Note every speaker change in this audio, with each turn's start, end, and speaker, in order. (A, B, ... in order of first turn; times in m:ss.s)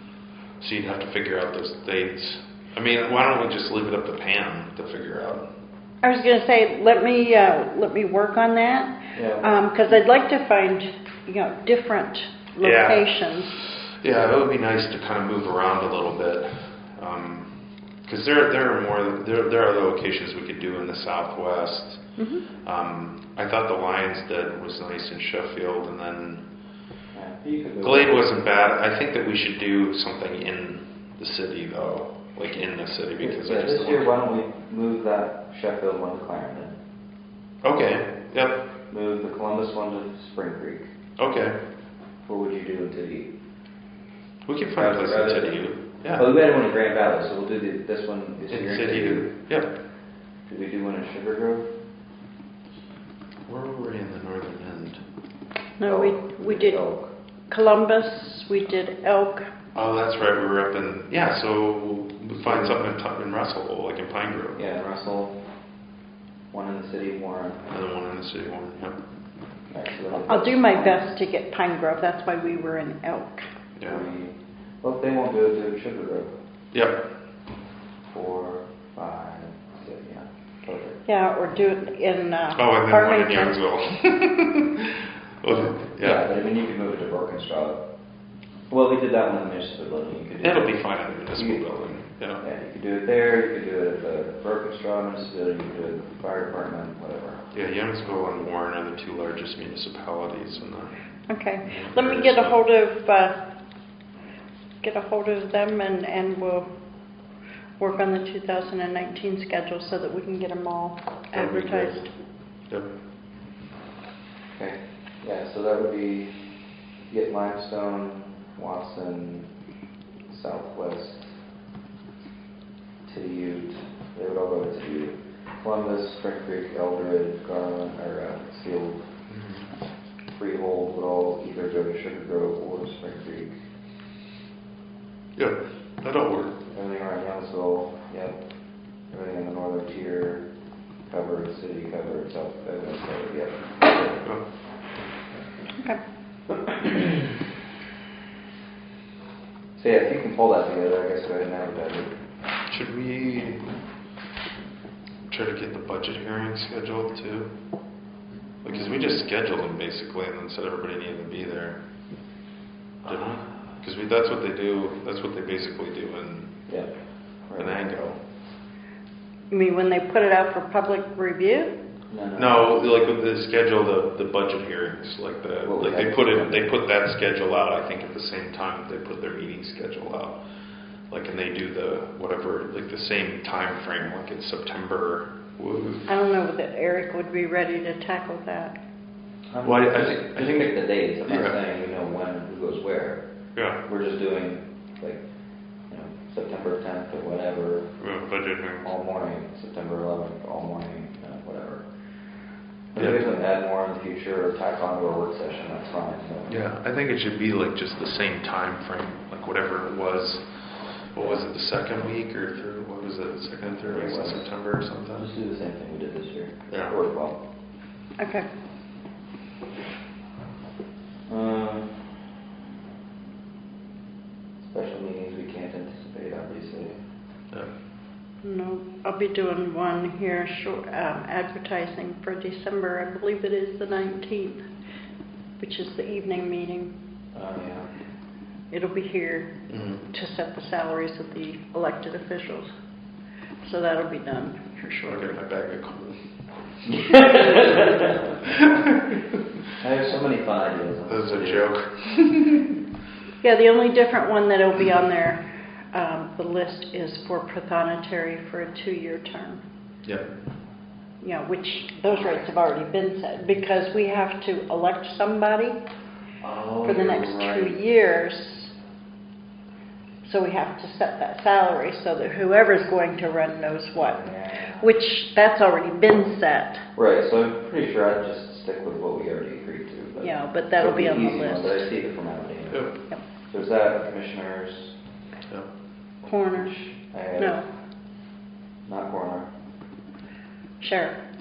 0:00.6-0:05.5 A
0:06.0-0:13.6 B
0:09.2-0:09.6 C
0:12.6-0:26.4 A
0:22.2-0:22.5 B
0:27.1-0:28.3 C
0:27.8-0:34.1 A
0:33.2-0:36.8 C
0:37.6-0:38.6 A
0:38.9-0:40.9 C
0:41.2-0:41.6 A
0:42.2-0:43.3 C
0:44.5-0:46.3 A
0:44.8-0:49.3 C
0:48.5-0:49.8 A
0:50.5-0:51.7 C
0:53.5-0:55.0 A
0:55.8-0:56.8 B
0:55.8-0:57.1 C
0:57.5-0:59.5 B
0:59.8-1:04.6 A
1:02.4-1:02.8 C
1:04.6-1:05.4 C
1:06.5-1:07.6 C
1:07.7-1:09.0 A
1:09.7-1:11.0 C
1:10.1-1:13.5 B
1:13.8-1:14.0 A
1:13.9-1:16.3 C
1:16.7-1:17.1 A
1:18.1-1:21.0 C
1:21.0-1:23.6 B
1:22.6-1:26.2 A
1:25.6-1:27.8 C
1:28.7-1:31.7 C
1:30.4-1:32.4 A
1:32.4-1:37.5 C
1:37.5-1:41.0 A
1:41.3-1:43.5 B
1:41.6-1:42.6 A
1:44.8-1:46.7 B
1:47.8-1:52.0 B
1:51.3-1:52.1 A
1:54.5-1:56.5 C
1:57.1-1:59.5 C
2:00.3-2:01.4 C
2:03.0-2:09.0 C
2:09.3-2:09.6 A
2:10.3-2:13.6 C
2:15.4-2:16.6 A
2:16.6-2:18.4 C
2:19.1-2:20.5 C
2:21.1-2:24.4 C
2:29.8-2:32.2 C
2:32.7-2:33.7 A
2:35.3-2:37.5 A
2:38.6-2:41.8 A
2:38.8-2:39.1 C
2:43.0-2:46.6 A
2:47.5-2:47.8 C
2:47.6-2:48.2 A
2:49.5-2:51.7 B
2:52.1-2:52.7 C
2:52.4-3:00.4 A
2:55.6-2:56.7 C
3:01.1-3:06.1 A
3:06.1-3:08.8 B
3:09.5-3:15.2 C
3:09.6-3:11.6 A
3:13.6-3:13.8 A
3:15.9-3:18.0 C
3:18.0-3:18.9 A
3:18.8-3:21.9 C
3:22.9-3:26.6 C
3:23.0-3:23.3 A
3:26.5-3:35.3 A
3:31.2-3:31.4 C
3:33.8-3:34.5 C
3:35.1-3:37.4 C
3:36.7-3:37.0 A
3:38.2-3:38.5 B
3:41.3-3:42.2 C
3:44.6-3:47.0 C
3:48.4-3:54.6 B
3:55.6-3:57.0 B
3:57.3-3:58.0 C
3:58.7-4:02.7 B
3:59.7-4:00.0 A
4:03.6-4:05.4 B
4:05.1-4:07.9 A
4:06.9-4:08.2 C
4:08.6-4:09.2 A
4:09.8-4:11.7 C
4:11.1-4:12.6 A
4:13.4-4:19.6 B
4:20.0-4:20.3 A
4:21.2-4:25.8 B
4:22.1-4:22.4 C
4:26.4-4:27.8 C
4:26.8-4:28.7 B
4:30.2-4:36.8 B
4:34.0-4:34.9 C
4:37.0-4:45.0 C
4:40.2-4:41.9 B
4:46.2-4:47.6 C
4:46.3-4:46.8 B
4:47.4-4:47.7 B
4:48.8-4:49.5 C
4:50.8-4:51.2 B